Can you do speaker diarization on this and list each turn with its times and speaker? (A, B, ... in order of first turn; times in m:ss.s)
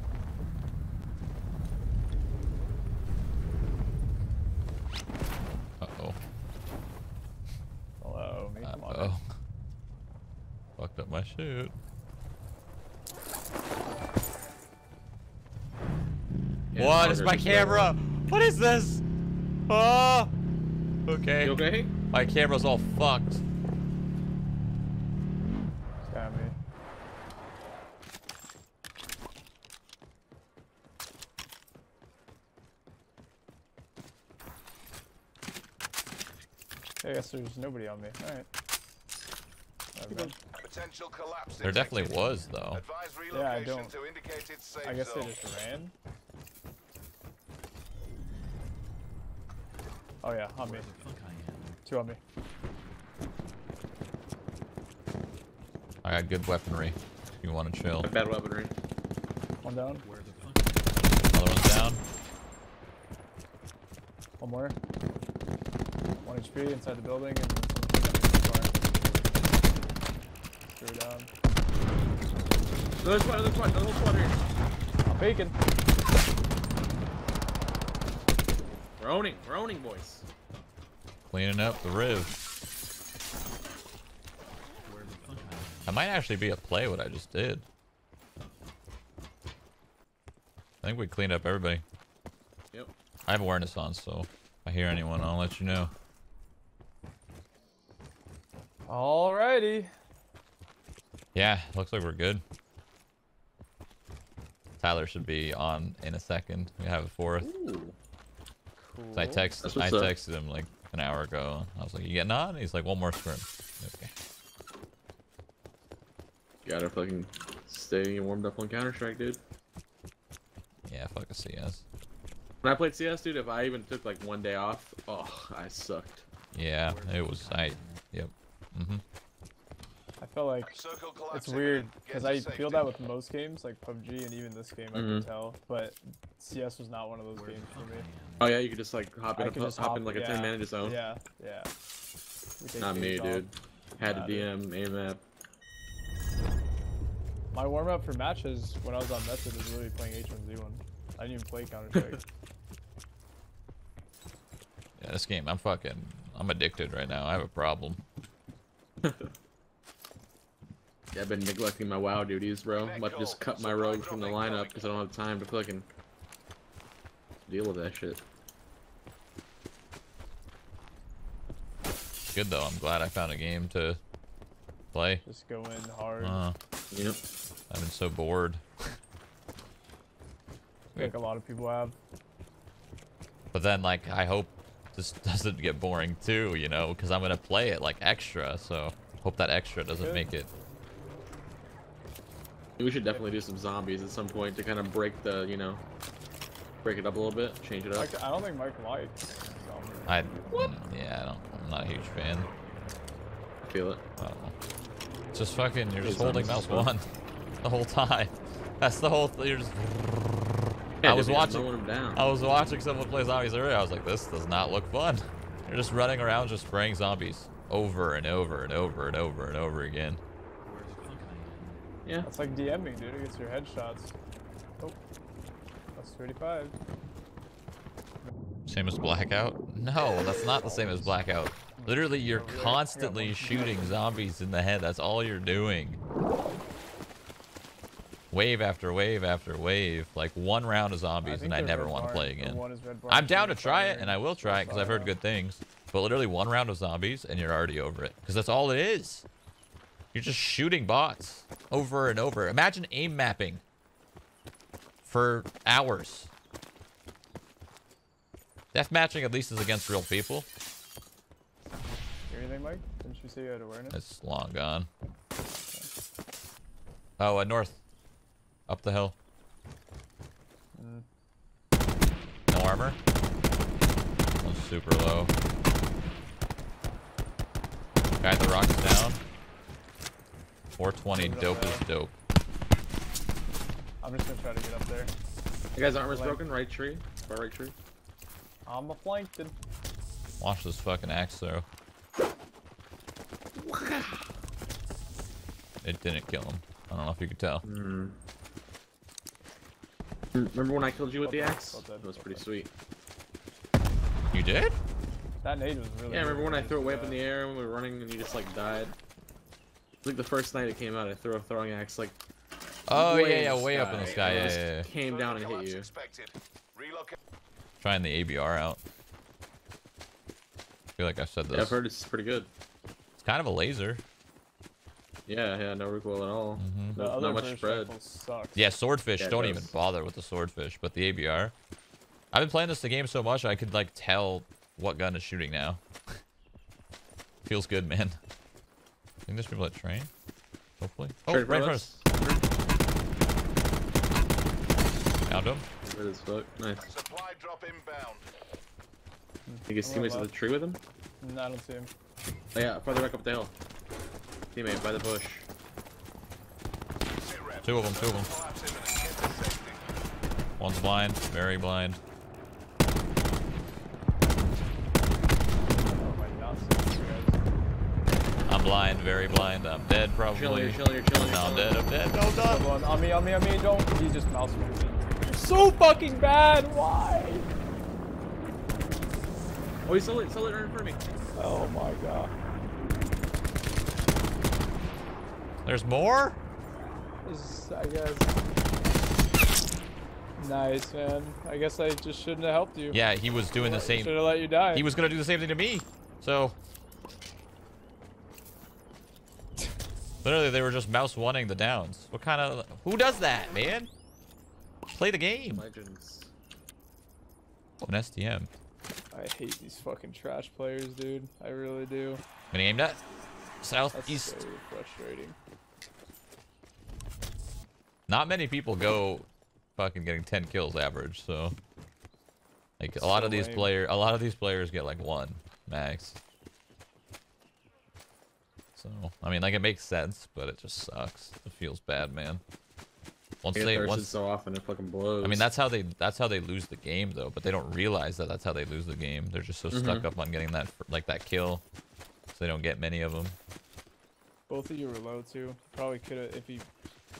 0:05.8-0:06.2 A
0:08.0-0:09.2 B
0:08.6-0:09.2 A
0:10.8-0:11.7 A
0:16.7-0:17.9 C
0:16.8-0:19.0 A
0:19.7-0:20.3 A
0:21.1-0:23.4 A
0:21.4-0:21.9 C
0:26.0-0:26.5 B
0:37.0-0:38.5 B
0:39.9-0:40.3 B
0:40.1-0:40.3 C
0:40.6-0:45.3 D
0:41.6-0:42.8 A
0:43.3-0:43.9 B
0:44.8-0:45.9 B
0:50.2-0:50.9 B
0:51.8-0:52.2 B
0:56.0-0:58.1 A
0:58.0-0:58.7 C
0:59.6-1:00.1 B
1:01.3-1:02.0 A
1:04.4-1:04.8 B
1:06.2-1:08.8 B
1:10.6-1:11.3 B
1:13.0-1:14.4 C
1:15.0-1:15.6 B
1:19.0-1:20.3 C
1:21.3-1:22.3 A
1:25.8-1:27.6 A
1:30.8-1:31.8 A
1:33.3-1:35.9 A
1:38.9-1:39.9 B
1:41.3-1:42.4 A
1:44.8-1:47.5 A
1:47.4-1:48.0 C
1:48.8-1:49.5 B
1:49.1-1:54.1 A
1:49.6-1:50.1 C
1:56.6-1:59.4 C
2:00.8-2:01.8 A
2:02.6-2:06.2 C
2:06.5-2:09.0 A
2:10.2-2:10.7 B
2:10.7-2:12.9 D
2:11.3-2:18.1 B
2:14.9-2:15.3 C
2:18.4-2:21.0 C
2:19.3-2:21.7 B
2:22.6-2:23.5 B
2:22.8-2:25.2 C
2:24.0-2:24.5 B
2:27.5-2:32.2 B
2:31.9-2:32.2 C
2:35.0-2:38.0 A
2:39.0-2:39.3 C
2:41.1-2:45.9 C
2:42.8-2:45.0 D
2:47.5-2:48.2 C
2:52.3-2:54.0 A
2:54.9-2:55.2 A
2:55.2-2:56.4 B
2:56.2-2:56.5 A
2:56.9-2:57.2 C
2:57.7-2:58.6 A
3:00.9-3:02.0 B
3:03.5-3:10.5 A
3:09.9-3:10.3 B
3:12.8-3:15.8 C
3:16.8-3:18.1 C
3:17.9-3:20.3 B
3:20.1-3:22.5 A
3:20.5-3:20.7 C
3:23.6-3:24.0 C
3:24.2-3:24.5 A
3:25.3-3:27.0 A
3:26.0-3:26.9 C
3:27.6-3:30.4 A
3:31.0-3:32.2 C
3:31.0-3:40.2 A
3:42.2-3:44.2 B
3:46.0-3:46.7 B
3:48.7-3:56.0 A
3:50.7-3:51.1 B
3:51.7-3:54.0 B
3:58.3-4:09.3 A
4:01.2-4:05.1 B
4:10.1-4:13.6 A
4:15.0-4:16.3 A
4:18.7-4:20.5 A
4:22.3-4:24.0 B
4:23.9-4:24.9 A
4:27.2-4:27.8 A
4:28.7-4:29.2 A
4:30.7-4:31.0 B
4:32.5-4:33.0 A
4:34.4-4:35.3 A
4:38.2-4:39.2 A
4:40.8-4:42.1 A
4:41.1-4:41.8 B
4:44.0-4:45.1 B
4:45.7-4:47.7 C
4:46.1-4:46.4 B
4:48.6-4:49.5 B
4:50.4-4:51.6 A
4:53.5-4:54.3 C
4:55.8-4:57.6 A
4:57.6-4:58.2 C
5:00.3-5:02.7 C
5:01.2-5:02.4 B
5:04.3-5:04.8 A
5:05.4-5:07.2 B
5:06.1-5:09.0 C
5:10.0-5:12.2 C
5:12.9-5:14.9 A
5:12.9-5:15.9 C
5:14.0-5:17.2 D
5:17.8-5:18.8 A
5:21.0-5:21.8 A
5:21.5-5:22.5 C
5:23.2-5:24.0 A
5:25.3-5:27.9 C
5:26.6-5:27.0 A
5:27.0-5:28.7 B
5:28.5-5:31.5 A
5:29.2-5:29.8 C
5:32.3-5:35.8 A
5:37.4-5:38.2 A
5:39.3-5:40.1 A
5:40.8-5:42.0 A
5:41.3-5:42.4 C
5:45.3-5:45.6 A
5:45.8-5:46.8 C
5:46.8-5:48.2 D
5:49.4-5:50.3 B
5:49.7-5:50.8 C
5:51.2-5:51.9 B
5:52.5-5:53.5 C
5:54.5-5:55.5 C
5:57.1-5:59.8 D
5:57.6-5:58.3 A
6:00.6-6:02.0 A
6:05.7-6:07.4 B
6:08.5-6:12.7 A
6:10.3-6:11.8 C
6:12.4-6:17.5 B
6:19.8-6:21.1 C
6:21.4-6:22.3 B
6:25.6-6:26.4 A
6:27.2-6:28.4 B
6:30.4-6:33.0 B
6:32.9-6:36.6 A
6:33.6-6:34.9 B
6:40.2-6:43.9 A
6:44.9-6:45.6 A
6:45.5-6:46.3 C
6:47.8-6:48.5 A
6:49.1-6:52.2 B
6:52.5-6:53.0 A
6:53.6-6:54.4 A
6:53.9-6:55.4 B
6:58.1-7:01.6 A
7:02.8-7:06.2 A
7:03.0-7:03.7 B
7:08.8-7:12.4 A
7:13.4-7:14.1 A
7:13.5-7:15.5 C
7:15.2-7:21.6 A
7:19.7-7:20.1 C
7:22.3-7:23.4 A
7:24.5-7:26.7 B